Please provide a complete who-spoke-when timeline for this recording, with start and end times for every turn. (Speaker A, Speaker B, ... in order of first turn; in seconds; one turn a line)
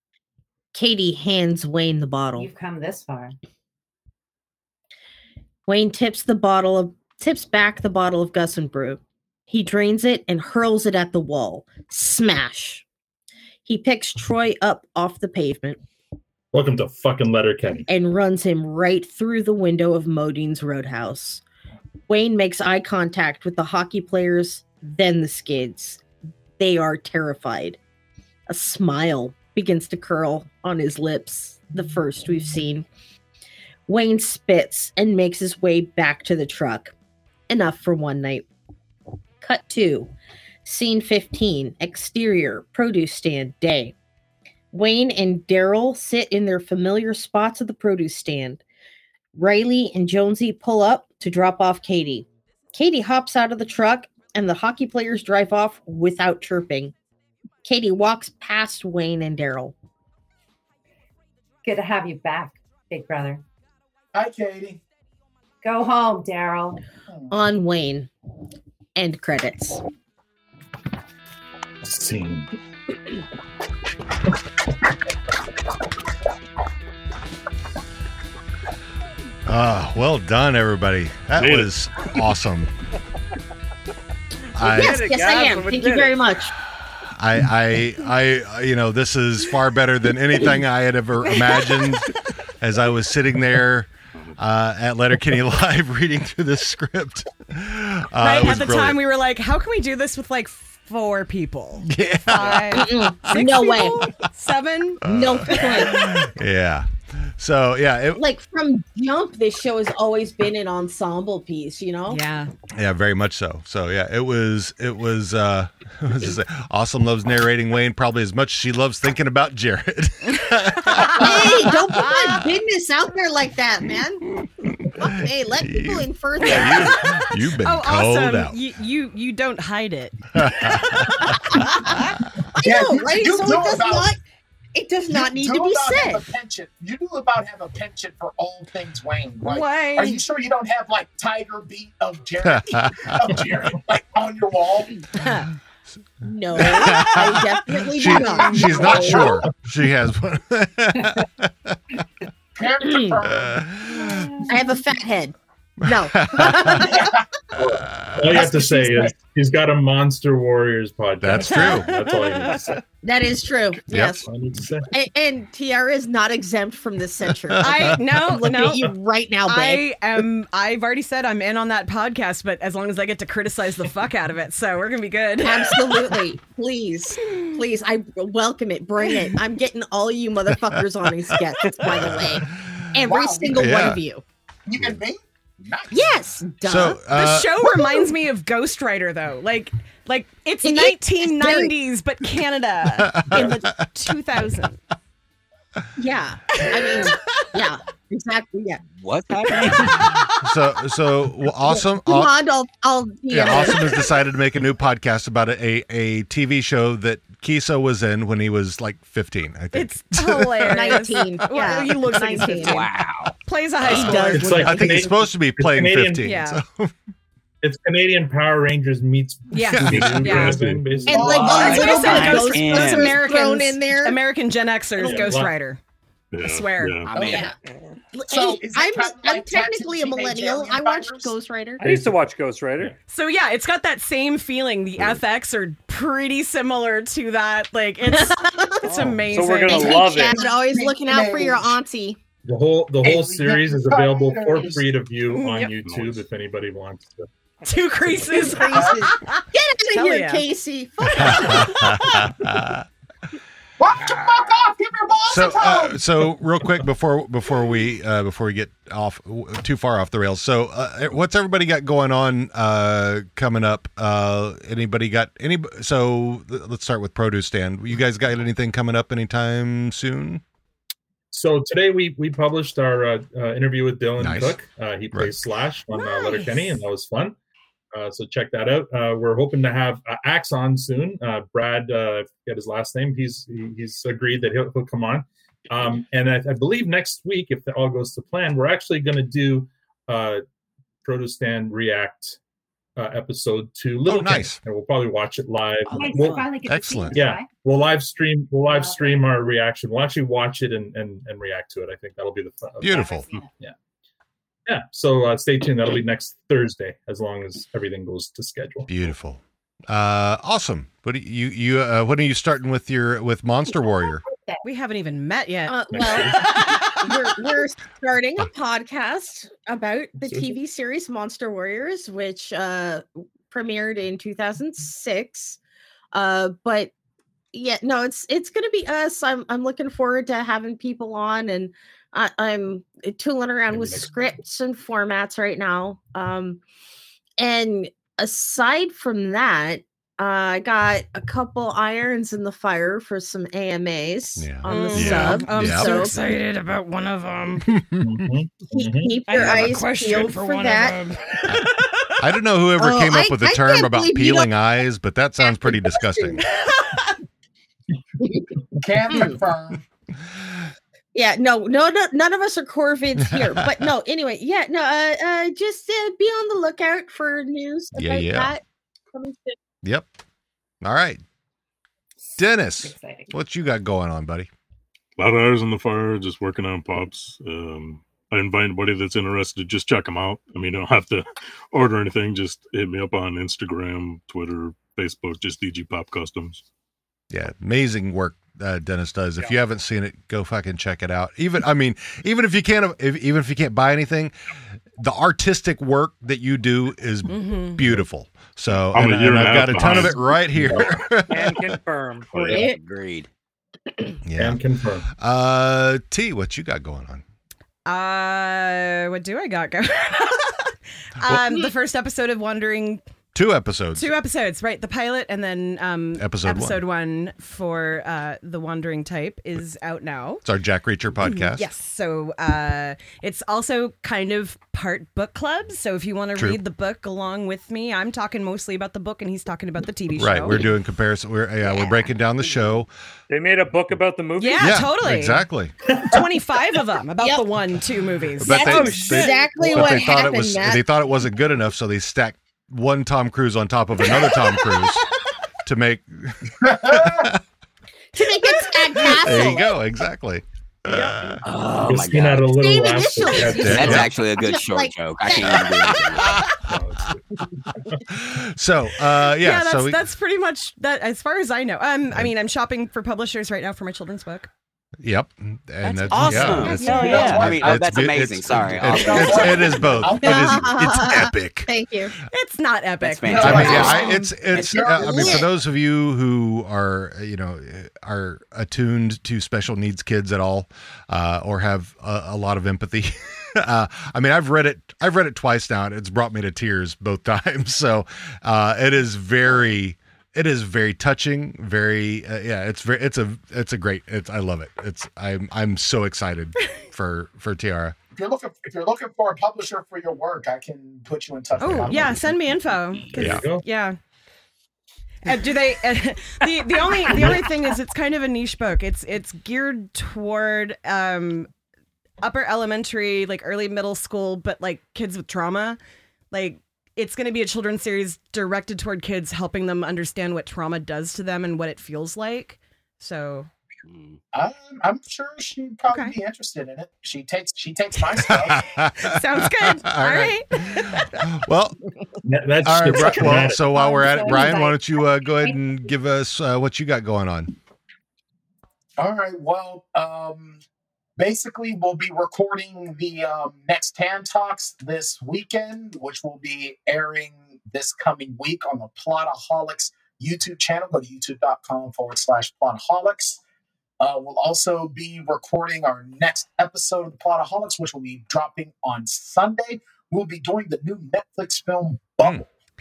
Speaker A: 0.7-2.5
Speaker B: 2.4-3.4
Speaker A: 5.7-12.8
Speaker A: 13.7-15.8
Speaker C: 16.5-17.9
Speaker A: 17.9-21.4
Speaker A: 22.1-26.0
Speaker A: 26.6-27.8
Speaker A: 28.5-32.9
Speaker A: 33.9-36.9
Speaker A: 37.5-38.5
Speaker A: 39.4-40.1
Speaker A: 40.6-44.0
Speaker A: 44.7-48.6
Speaker A: 49.4-56.9
Speaker A: 57.6-59.7
Speaker B: 61.6-63.4
Speaker D: 64.1-64.8
Speaker B: 65.6-66.8
Speaker A: 67.3-68.1
Speaker A: 69.0-69.8
Speaker C: 71.8-72.5
Speaker E: 79.5-82.7
Speaker F: 81.4-81.7
Speaker E: 84.5-85.1
Speaker A: 84.6-86.5
Speaker G: 84.7-86.2
Speaker E: 87.1-99.0
Speaker H: 98.2-105.9
Speaker E: 101.8-102.9
Speaker A: 102.7-104.1
Speaker E: 105.0-108.2
Speaker A: 105.0-106.2
Speaker A: 108.2-112.2
Speaker H: 112.1-112.5
Speaker E: 112.7-122.3
Speaker H: 120.9-121.2
Speaker A: 121.1-124.3
Speaker A: 125.0-127.2
Speaker E: 125.6-128.6
Speaker H: 126.4-132.0
Speaker E: 130.4-131.3
Speaker A: 131.6-131.9
Speaker A: 132.5-134.2
Speaker D: 132.6-134.1
Speaker A: 134.7-136.2
Speaker D: 135.1-145.1
Speaker H: 139.4-140.2
Speaker E: 142.4-143.3
Speaker A: 146.2-149.3
Speaker E: 146.6-151.8
Speaker D: 148.5-149.4
Speaker D: 152.6-153.7
Speaker A: 152.8-153.2
Speaker E: 153.3-154.4
Speaker B: 153.9-154.5
Speaker A: 154.5-157.1
Speaker E: 155.8-156.9
Speaker C: 157.6-162.8
Speaker E: 157.7-158.2
Speaker A: 158.3-159.1
Speaker E: 161.2-161.9
Speaker H: 161.5-162.5
Speaker A: 163.0-164.3
Speaker E: 163.9-164.2
Speaker C: 164.3-164.9
Speaker A: 164.9-169.8
Speaker E: 167.5-167.8
Speaker H: 167.6-168.9
Speaker H: 169.5-176.2
Speaker A: 175.4-184.2
Speaker E: 181.8-182.8
Speaker D: 183.1-183.6
Speaker E: 183.5-184.0
Speaker D: 184.7-186.2
Speaker A: 185.9-187.0
Speaker E: 186.6-187.6
Speaker H: 187.1-194.8
Speaker A: 190.6-191.7
Speaker E: 193.0-193.8
Speaker A: 196.0-198.8
Speaker H: 196.7-197.2
Speaker I: 198.9-200.1
Speaker E: 200.3-202.3
Speaker A: 201.7-204.1
Speaker E: 203.3-211.3
Speaker H: 209.7-212.9
Speaker A: 210.7-212.9
Speaker I: 212.6-213.3
Speaker H: 213.4-214.7
Speaker E: 213.8-216.9
Speaker A: 213.9-215.1
Speaker C: 214.3-216.3
Speaker H: 216.2-216.6
Speaker C: 217.6-221.6
Speaker H: 219.5-220.6
Speaker F: 219.8-220.8
Speaker D: 221.1-222.4
Speaker A: 221.1-224.2
Speaker I: 221.1-223.2
Speaker H: 221.4-225.8
Speaker C: 225.0-225.5
Speaker F: 226.3-227.1
Speaker H: 226.4-227.0
Speaker I: 227.1-227.5
Speaker D: 227.1-227.5
Speaker A: 227.3-227.5
Speaker A: 228.2-232.0
Speaker D: 228.3-231.3
Speaker G: 231.8-232.9
Speaker C: 231.8-232.1
Speaker H: 233.1-240.0
Speaker A: 238.1-238.8
Speaker G: 238.9-240.4
Speaker A: 239.7-242.2
Speaker D: 240.3-241.7
Speaker C: 242.5-247.3
Speaker D: 243.0-244.9
Speaker H: 245.3-245.7
Speaker F: 245.8-246.2
Speaker H: 247.6-250.4
Speaker A: 248.3-251.9
Speaker D: 248.7-249.0
Speaker H: 251.0-252.2
Speaker E: 251.2-252.8
Speaker D: 253.8-256.0
Speaker E: 255.3-270.4
Speaker C: 271.3-277.4
Speaker E: 274.2-274.6
Speaker H: 276.0-276.8
Speaker C: 277.9-290.4
Speaker C: 291.0-292.4
Speaker C: 293.0-296.5
Speaker E: 294.1-294.6
Speaker B: 295.9-297.5
Speaker E: 296.6-297.2
Speaker C: 297.1-303.1
Speaker B: 298.6-299.3
Speaker E: 302.8-303.3
Speaker B: 302.8-303.5
Speaker C: 304.7-308.9
Speaker E: 308.9-314.2
Speaker B: 314.3-314.6
Speaker H: 314.6-316.8
Speaker A: 315.7-325.6
Speaker A: 326.1-326.9
Speaker A: 327.5-336.6
Speaker C: 333.7-334.1
Speaker A: 337.4-346.2
Speaker E: 344.4-346.0
Speaker H: 344.7-347.6
Speaker E: 347.6-348.2
Speaker C: 348.0-349.2
Speaker A: 348.7-351.1
Speaker H: 349.3-352.1
Speaker E: 352.2-356.4
Speaker A: 352.8-354.5
Speaker A: 355.4-356.4
Speaker H: 356.5-357.2
Speaker A: 358.2-358.5
Speaker D: 358.8-359.8
Speaker A: 359.1-359.4
Speaker A: 361.1-368.6
Speaker E: 363.2-363.9
Speaker E: 367.9-368.5
Speaker A: 369.1-369.6
Speaker E: 370.8-371.2
Speaker E: 372.4-374.5
Speaker B: 372.8-373.3
Speaker F: 375.2-386.6
Speaker E: 387.3-394.3
Speaker E: 395.0-401.7
Speaker H: 397.3-397.8
Speaker F: 398.9-400.2
Speaker G: 401.3-402.6
Speaker C: 402.4-402.6
Speaker I: 402.4-403.3
Speaker A: 402.4-402.8
Speaker E: 404.3-404.6
Speaker C: 404.4-405.1
Speaker E: 405.2-407.2
Speaker H: 407.9-413.0
Speaker E: 413.3-414.1
Speaker H: 414.0-420.4
Speaker E: 416.2-416.8
Speaker E: 420.4-421.7
Speaker H: 421.3-430.6
Speaker E: 430.2-432.9
Speaker A: 431.7-431.9
Speaker G: 433.3-434.8
Speaker H: 434.4-435.4
Speaker E: 434.6-435.7
Speaker H: 435.9-439.2
Speaker E: 438.4-445.1
Speaker A: 438.5-440.8
Speaker G: 438.6-439.5
Speaker E: 445.6-447.4
Speaker D: 446.6-447.3
Speaker A: 448.1-449.7
Speaker E: 448.9-451.4
Speaker I: 451.4-452.5
Speaker C: 451.8-454.1
Speaker A: 452.5-456.4
Speaker E: 453.4-454.1
Speaker I: 453.6-456.4
Speaker E: 455.7-456.8
Speaker C: 456.4-458.0
Speaker E: 458.1-460.0
Speaker H: 459.4-464.5
Speaker E: 465.0-471.7
Speaker I: 465.8-469.8
Speaker A: 466.1-467.3
Speaker H: 466.3-467.4
Speaker D: 466.7-467.9
Speaker D: 468.9-470.8
Speaker A: 470.2-472.2
Speaker H: 472.3-474.3
Speaker I: 473.0-475.4
Speaker D: 473.3-475.4
Speaker E: 473.4-498.0
Speaker A: 473.6-474.1
Speaker A: 474.8-475.5
Speaker D: 498.1-502.4
Speaker E: 501.6-502.2
Speaker H: 501.6-504.0
Speaker E: 503.1-503.5
Speaker C: 503.1-503.6
Speaker H: 505.2-511.5
Speaker H: 512.2-515.8
Speaker H: 516.3-523.5
Speaker I: 523.9-524.2
Speaker D: 524.3-528.6
Speaker H: 525.9-526.1
Speaker E: 528.3-531.8
Speaker H: 529.0-531.2
Speaker C: 532.2-533.6
Speaker E: 532.6-537.5
Speaker B: 533.0-535.6
Speaker D: 539.0-540.6
Speaker D: 541.2-553.4
Speaker D: 554.0-562.5